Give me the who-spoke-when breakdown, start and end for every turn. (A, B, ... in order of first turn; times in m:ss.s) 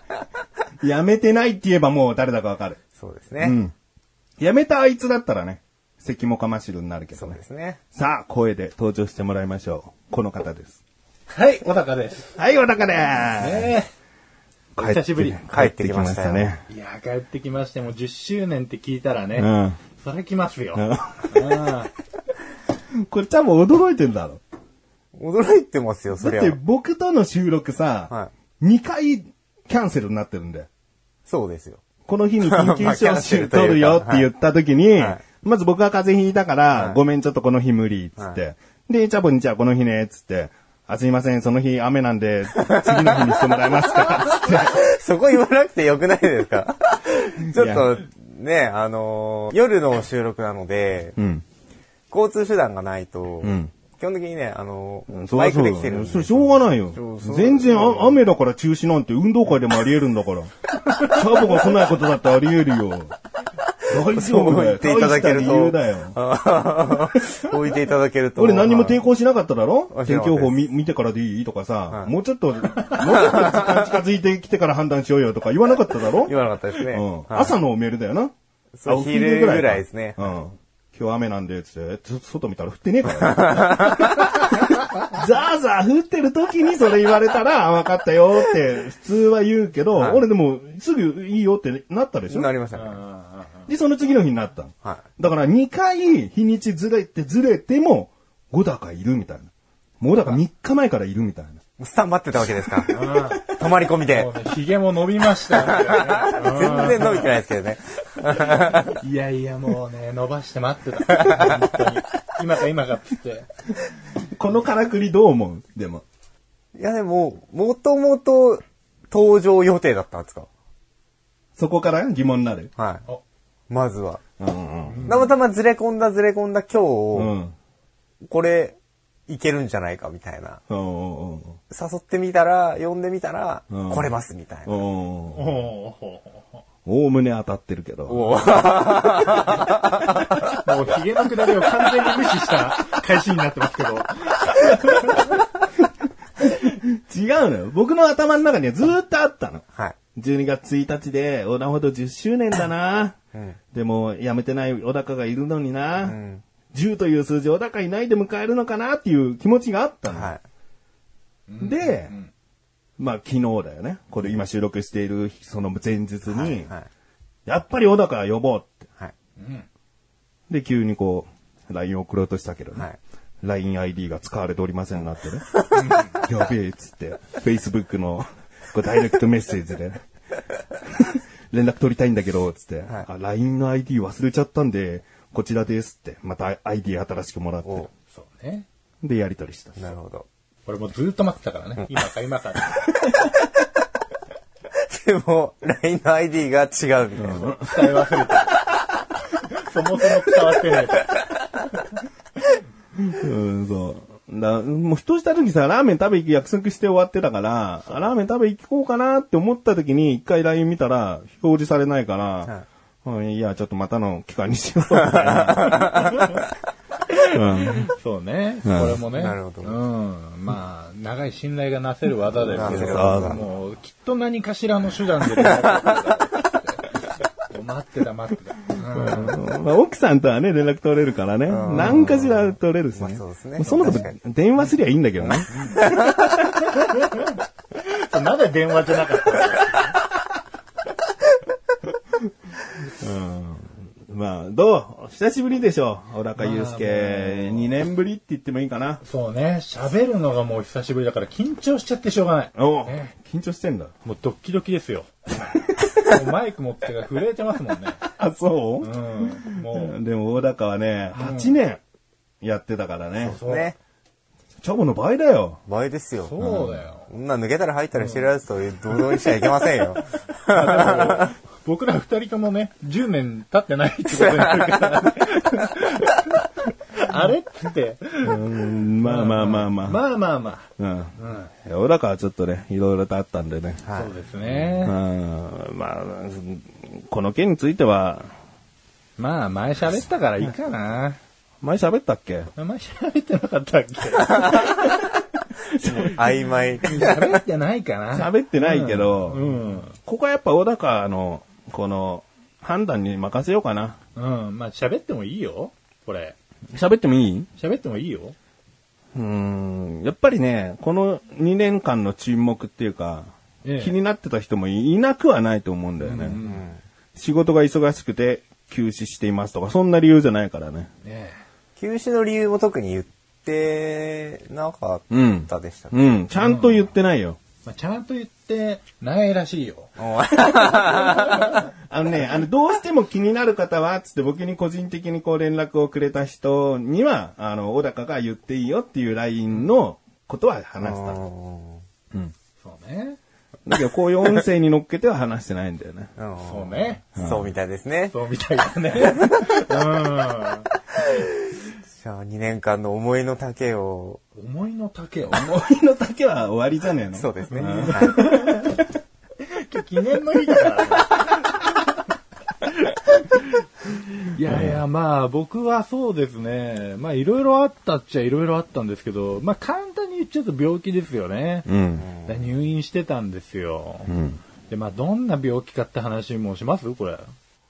0:00.8-0:02.8 A
0:03.0-0:03.6 B
0:03.4-0:03.7 A
0:04.4-0:07.4 A
0:07.2-0:07.8 B
0:07.9-0:10.8 A
0:11.3-0:12.3 C
0:12.4-0:13.8 A
0:13.4-0:13.9 C
0:14.8-0:15.4 C
0:14.8-0:16.6 A
0:15.4-0:16.6 B
0:16.7-0:21.9 C
0:19.4-0:19.8 A
0:20.8-0:21.8 A
0:23.1-0:24.4 A
0:25.2-0:26.6 B
0:26.2-0:30.7 A
0:31.3-0:31.8 B
0:32.1-0:44.8 A
0:32.4-0:34.3 B
0:35.0-0:35.2 B
0:36.7-0:37.0 B
0:42.6-0:51.2 B
0:47.5-0:48.0 A
0:51.2-0:51.4 A
0:52.1-0:58.2 B
0:53.4-0:53.7 A
0:55.1-1:03.2 A
1:01.0-1:01.2 C
1:03.9-1:06.2 A
1:04.1-1:09.0 B
1:07.2-1:07.5 A
1:08.4-1:18.3 A
1:09.9-1:10.6 B
1:13.1-1:13.6 B
1:16.2-1:17.6 B
1:18.8-1:20.3 B
1:18.9-1:32.5 A
1:30.0-1:30.3 B
1:32.3-1:33.0 B
1:32.7-1:33.7 C
1:33.7-1:39.5 A
1:40.0-1:41.6 A
1:41.8-1:44.3 B
1:42.9-1:47.3 C
1:45.5-1:48.9 B
1:48.5-1:53.5 C
1:54.4-1:56.0 A
1:56.8-2:00.5 B
2:01.6-2:02.7 A
2:02.8-2:03.0 B
2:03.7-2:04.2 B
2:04.4-2:05.2 A
2:04.9-2:05.4 C
2:05.0-2:07.4 B
2:07.2-2:07.6 A
2:08.2-2:08.8 B
2:09.3-2:10.6 B
2:10.7-2:11.6 A
2:11.7-2:14.8 B
2:13.7-2:15.5 A
2:15.3-2:16.6 C
2:16.9-2:18.6 A
2:18.1-2:20.4 B
2:20.3-2:25.3 C
2:26.4-2:29.6 A
2:30.2-2:33.2 A
2:33.3-2:33.6 B
2:33.7-2:36.2 A
2:36.0-2:36.4 B
2:36.7-2:40.3 A
2:40.1-2:40.4 B
2:41.5-2:42.3 C
2:41.6-2:42.1 A
2:43.0-2:46.7 A
2:46.3-2:46.9 B
2:47.5-2:48.9 A
2:49.4-2:49.7 C
2:50.5-2:52.9 A
2:53.4-2:55.7 A
2:55.7-2:56.2 C
2:56.2-3:00.0 A
3:00.9-3:07.9 A
3:07.6-3:07.9 B
3:08.0-3:08.7 C
3:09.0-3:09.8 A
3:09.8-3:10.3 B
3:10.7-3:13.0 C
3:14.7-3:17.5 B
3:17.2-3:18.0 A
3:17.4-3:18.6 C
3:19.4-3:21.2 C
3:23.0-3:35.8 A
3:35.0-3:36.4 B
3:35.4-3:36.4 C
3:37.1-3:46.8 C
3:37.3-3:37.9 A
3:38.7-3:39.0 A
3:39.1-3:39.8 B
3:42.4-3:43.4 B
3:42.6-3:43.4 A
3:47.5-3:49.4 C
3:48.9-3:56.3 A
3:51.5-3:54.2 B
3:51.7-3:52.1 C
3:55.2-3:55.9 C
3:55.9-3:56.2 B
3:56.6-4:00.0 C
4:02.9-4:09.0 A
4:06.4-4:07.8 C
4:09.0-4:13.2 C
4:12.6-4:13.9 A
4:14.0-4:15.1 C
4:15.7-4:18.1 C
4:18.2-4:21.8 A
4:18.8-4:20.0 C
4:21.1-4:21.6 C
4:22.4-4:23.4 A
4:23.2-4:23.8 B
4:23.3-4:23.8 C
4:24.6-4:25.6 A
4:25.7-4:26.4 B
4:26.2-4:27.1 C
4:26.4-4:26.7 A
4:27.0-4:31.3 B
4:27.9-4:28.3 C
4:28.9-4:29.3 C
4:30.3-4:41.5 C
4:34.3-4:34.7 B
4:38.2-4:40.0 A
4:40.8-4:43.8 A
4:43.8-4:44.2 B
4:44.0-4:45.0 C
4:44.8-4:48.3 A
4:49.2-4:51.2 C
4:51.6-4:52.5 A
4:52.6-4:55.2 C
4:55.8-4:56.2 A
4:55.8-4:57.4 B
4:55.8-4:56.2 C
4:56.8-5:00.0 C
4:58.1-5:04.0 A
5:04.2-5:06.4 C
5:06.7-5:07.5 A
5:07.6-5:08.4 C
5:09.2-5:16.4 A
5:13.6-5:14.0 C
5:16.0-5:16.6 C
5:16.4-5:16.8 B
5:17.2-5:20.9 A
5:21.0-5:21.4 C
5:21.8-5:26.2 B
5:25.1-5:27.4 A
5:26.4-5:26.9 C
5:27.6-5:29.9 C
5:30.0-5:31.4 B
5:31.2-5:31.6 C
5:31.7-5:41.2 A
5:40.8-5:41.8 B
5:42.6-5:43.2 C
5:43.7-5:46.1 A
5:46.2-5:48.2 B
5:46.4-5:47.2 C
5:47.2-5:47.5 A
5:48.1-5:50.7 C
5:51.0-5:51.4 B
5:51.9-5:54.2 B
5:54.4-5:55.5 C
5:55.3-5:58.8 A
5:57.1-5:58.3 B
5:57.5-5:58.8 C
5:59.4-6:01.6 C
6:03.2-6:03.5 C
6:04.2-6:14.1 C
6:04.5-6:04.8 A
6:11.7-6:12.1 A
6:12.0-6:12.3 B
6:14.1-6:14.4 A
6:14.7-6:17.2 C